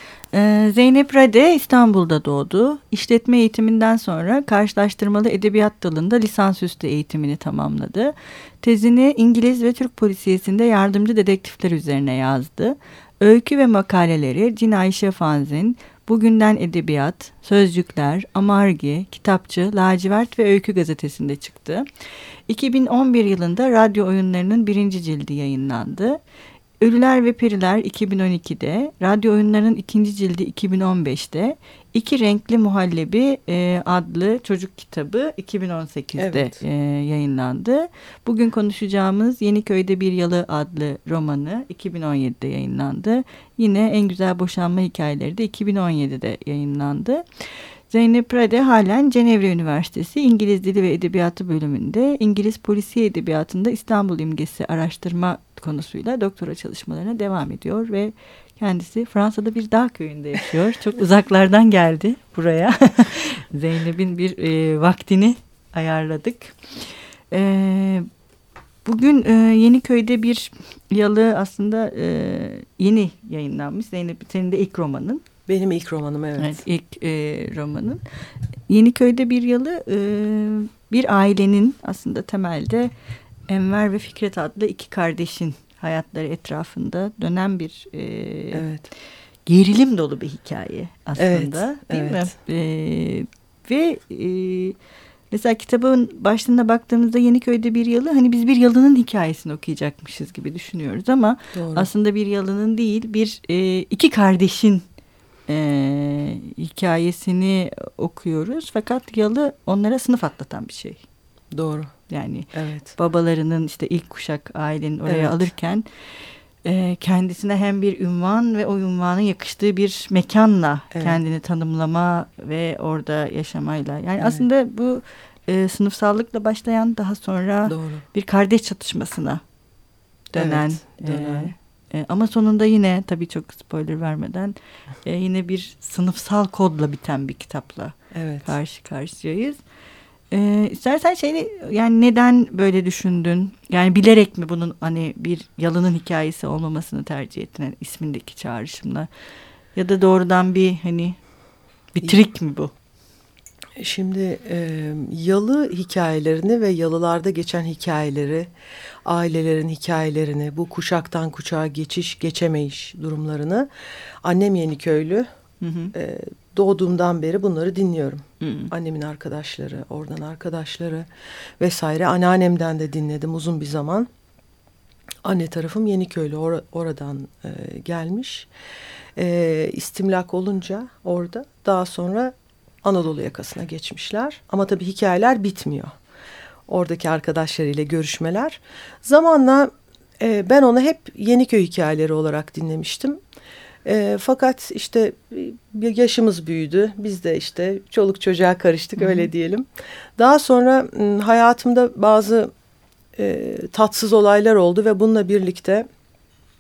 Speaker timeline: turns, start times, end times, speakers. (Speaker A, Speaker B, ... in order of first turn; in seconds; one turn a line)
Speaker A: 0.3-21.9
Speaker A: 22.5-26.2
Speaker A: 26.8-47.2
Speaker B: 36.2-36.6
Speaker A: 47.9-66.6
Speaker A: 67.3-68.1
Speaker A: 68.8-75.2
Speaker B: 75.5-76.6
Speaker A: 76.4-78.0
Speaker A: 78.7-82.9
Speaker A: 83.5-88.7
Speaker B: 88.5-88.9
Speaker A: 89.5-94.8
Speaker B: 91.2-92.3
Speaker A: 95.3-104.9
Speaker B: 101.5-101.9
Speaker A: 105.5-111.0
Speaker B: 111.5-111.9
Speaker A: 112.1-115.9
Speaker B: 112.5-112.9
Speaker B: 115.1-115.5
Speaker A: 116.6-129.4
Speaker B: 120.9-121.2
Speaker B: 127.7-128.0
Speaker B: 130.3-131.5
Speaker A: 130.3-139.6
Speaker B: 138.1-138.5
Speaker A: 140.3-149.1
Speaker A: 149.8-151.2
Speaker A: 151.9-152.7
Speaker B: 153.8-158.5
Speaker B: 159.1-163.7
Speaker B: 164.2-165.3
Speaker A: 165.6-165.9
Speaker B: 165.9-171.1
Speaker A: 168.4-168.7
Speaker B: 171.6-174.1
Speaker B: 175.2-178.5
Speaker B: 179.2-185.9
Speaker B: 186.7-193.2
Speaker B: 193.8-202.5
Speaker A: 199.0-199.3
Speaker B: 203.2-205.9